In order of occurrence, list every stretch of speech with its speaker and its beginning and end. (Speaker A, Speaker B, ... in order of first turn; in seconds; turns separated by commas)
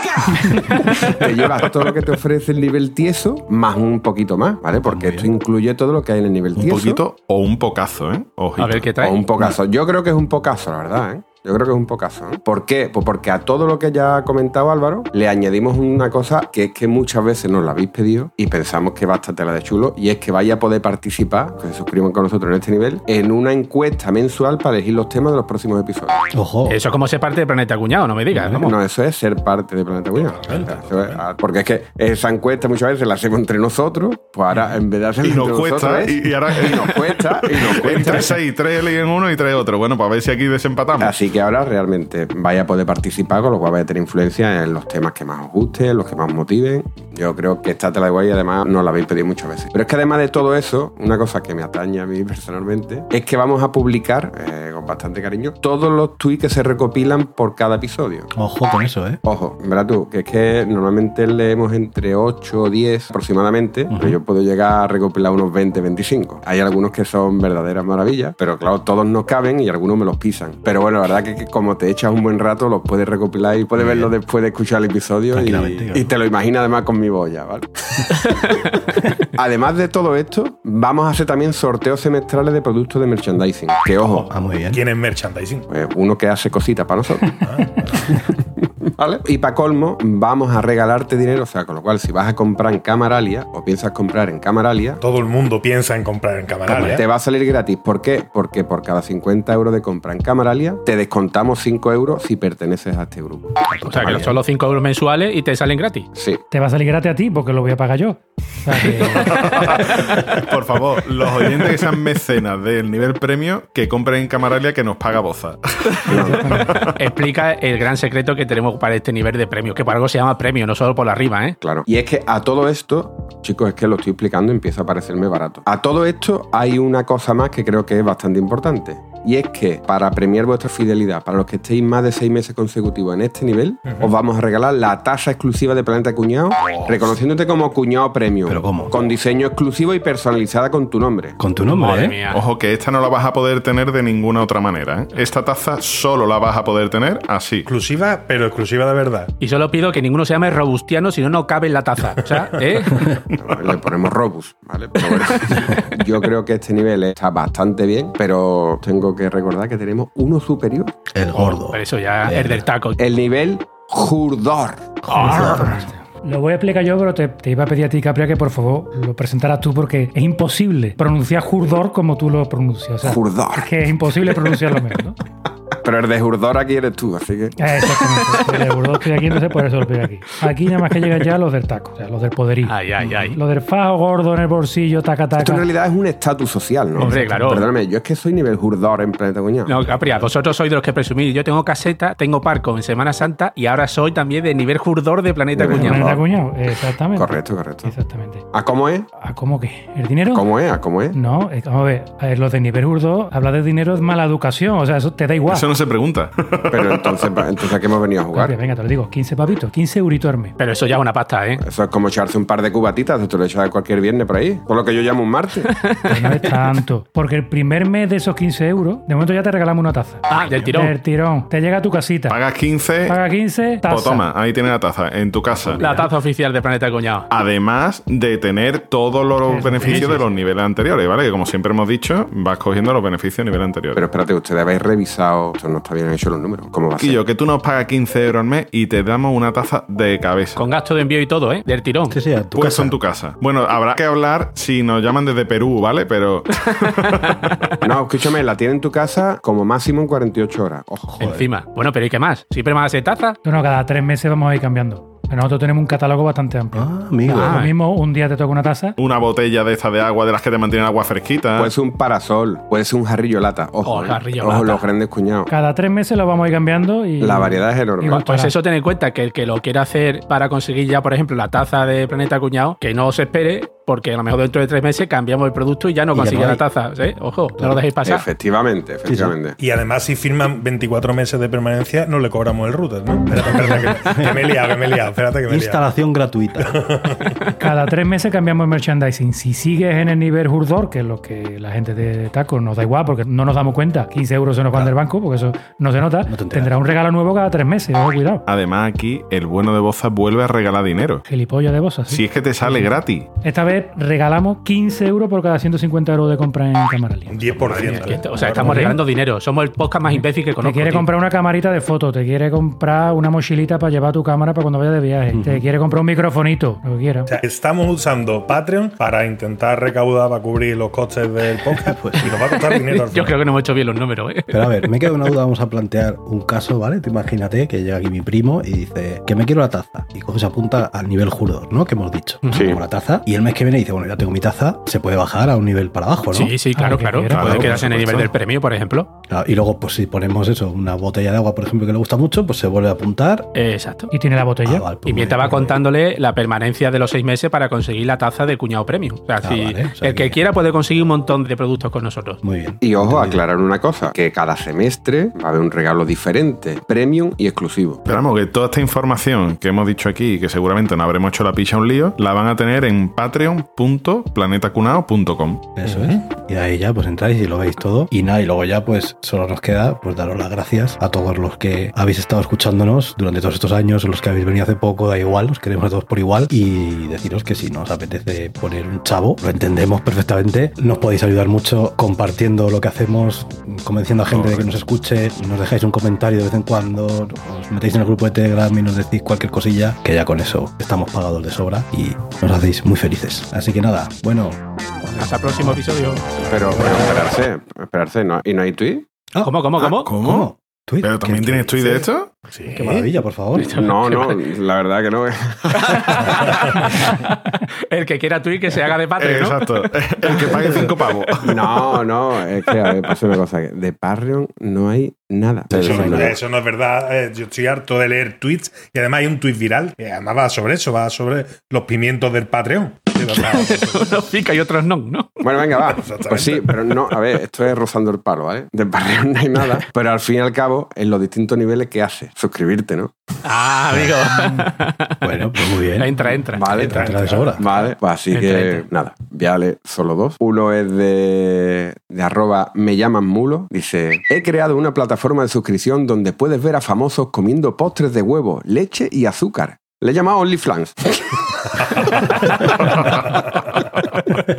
Speaker A: 0.3-7.0, Speaker B: 4.8-5.3, Speaker C: 6.5-8.9, Speaker D: 8.6-9.2, Speaker A: 9.0-26.2, Speaker B: 26.3-26.8, Speaker D: 26.6-28.8, Speaker B: 28.3-28.7, Speaker A: 28.6-38.4, Speaker E: 30.1-31.2, Speaker C: 35.2-41.1, Speaker A: 41.0-58.3, Speaker B: 58.3-59.2, Speaker A: 59.2-78.2, Speaker B: 63.9-64.2, Speaker B: 73.8-74.1, Speaker B: 75.3-76.0, Speaker D: 78.3-78.7, Speaker A: 79.3-84.3, Speaker B: 84.3-84.8, Speaker E: 84.7-85.7, Speaker A: 85.7-87.3, Speaker E: 87.4-88.1, Speaker A: 89.0-95.0, Speaker E: 95.0-97.0, Speaker B: 96.7-97.0, Speaker A: 96.7-103.6, Speaker B: 103.7-104.4, Speaker D: 103.8-106.1, Speaker A: 106.1-106.4, Speaker F: 106.5-109.5, Speaker C: 109.1-117.0, Speaker D: 109.4-110.2, Speaker A: 116.1-116.7, Speaker F: 116.1-116.9, Speaker D: 117.0-121.6, Speaker A: 121.6-141.4, Speaker E: 136.7-137.1, Speaker B: 138.5-138.9, Speaker B: 141.4-142.2, Speaker D: 141.7-142.4, Speaker C: 142.3-147.7, Speaker E: 147.7-149.3, Speaker D: 149.4-153.0, Speaker A: 153.4-160.9, Speaker D: 155.1-155.8, Speaker B: 161.1-162.6, Speaker D: 161.3-163.0, Speaker A: 163.0-165.0, Speaker D: 165.1-165.7, Speaker F: 165.1-175.2, Speaker B: 165.2-165.8, Speaker A: 173.0-174.4, Speaker A: 175.8-178.5, Speaker F: 177.6-185.7, Speaker D: 182.7-183.4, Speaker B: 183.0-183.3, Speaker A: 185.4-189.8, Speaker E: 187.0-187.6, Speaker D: 187.0-187.7, Speaker D: 189.6-196.1, Speaker B: 189.9-190.2, Speaker A: 195.5-196.2, Speaker F: 195.7-198.4, Speaker A: 197.1-197.9, Speaker A: 198.5-199.1, Speaker F: 199.2-200.5, Speaker A: 200.3-201.2, Speaker F: 201.1-205.7, Speaker C: 205.5-207.3, Speaker A: 206.7-208.6, Speaker F: 208.3-210.6, Speaker D: 210.6-211.6, Speaker A: 211.6-215.7, Speaker D: 215.7-216.8, Speaker F: 216.0-222.4, Speaker D: 220.3-220.9, Speaker C: 222.3-223.2, Speaker F: 223.0-224.3, Speaker C: 223.9-225.8, Speaker D: 225.8-227.3, Speaker F: 225.8-226.1, Speaker C: 227.3-234.0, Speaker F: 229.4-230.2, Speaker D: 229.7-230.2, Speaker A: 233.9-237.2, Speaker C: 237.0-240.6, Speaker D: 240.6-242.2, Speaker B: 242.1-242.9, Speaker C: 242.5-247.6, Speaker A: 247.8-251.2, Speaker B: 251.0-251.5, Speaker D: 251.2-253.4, Speaker F: 253.4-259.0, Speaker B: 256.7-257.6, Speaker D: 257.3-257.7, Speaker C: 259.0-261.7, Speaker A: 261.6-265.5, Speaker D: 263.8-264.9, Speaker F: 265.5-268.6, Speaker A: 267.2-268.3, Speaker D: 268.2-278.2, Speaker B: 276.1-276.6, Speaker B: 277.6-277.8, Speaker A: 278.0-279.6, Speaker B: 279.1-279.3, Speaker E: 279.6-285.8, Speaker B: 283.3-284.5, Speaker B: 285.5-286.8, Speaker E: 286.6-287.5, Speaker F: 287.5-298.4, Speaker B: 296.3-296.7, Speaker C: 298.5-301.2, Speaker F: 301.2-307.4, Speaker C: 302.1-303.3, Speaker E: 307.3-308.9, Speaker B: 307.5-308.8, Speaker D: 307.7-311.1, Speaker F: 308.6-309.0, Speaker F: 310.6-317.3, Speaker B: 315.3-315.7, Speaker E: 317.2-323.4, Speaker B: 321.8-322.4, Speaker D: 322.5-324.9, Speaker B: 324.5-336.6, Speaker D: 332.4-332.7, Speaker A: 332.5-332.8, Speaker D: 336.3-339.1, Speaker F: 336.7-338.3, Speaker B: 337.3-338.2, Speaker B: 339.3-343.5, Speaker D: 343.5-344.1, Speaker F: 344.1-344.9, Speaker B: 344.6-345.9, Speaker D: 345.0-352.4, Speaker B: 349.4-350.4, Speaker B: 352.4-353.4, Speaker A: 352.8-358.0, Speaker C: 358.1-365.7, Speaker B: 365.8-395.8, Speaker E: 365.8-366.2, Speaker C: 384.2-384.7, Speaker D: 395.2-396.3, Speaker A: 396.4-399.1, Speaker B: 399.3-402.1, Speaker D: 399.4-400.1, Speaker C: 399.8-400.5, Speaker C: 401.0-402.3, Speaker E: 402.5-403.1, Speaker B: 402.7-403.9, Speaker D: 403.5-404.4, Speaker A: 403.7-406.2, Speaker D: 405.7-409.7, Speaker C: 409.2-411.8, Speaker A: 411.4-416.4, Speaker B: 415.7-416.4, Speaker E: 415.7-424.1, Speaker D: 423.3-425.8, Speaker A: 425.4-433.1, Speaker E: 425.9-426.9, Speaker D: 433.4-435.1, Speaker B: 435.2-437.6, Speaker D: 436.0-436.6, Speaker A: 436.5-453.3, Speaker E: 436.7-437.9, Speaker D: 438.3-438.8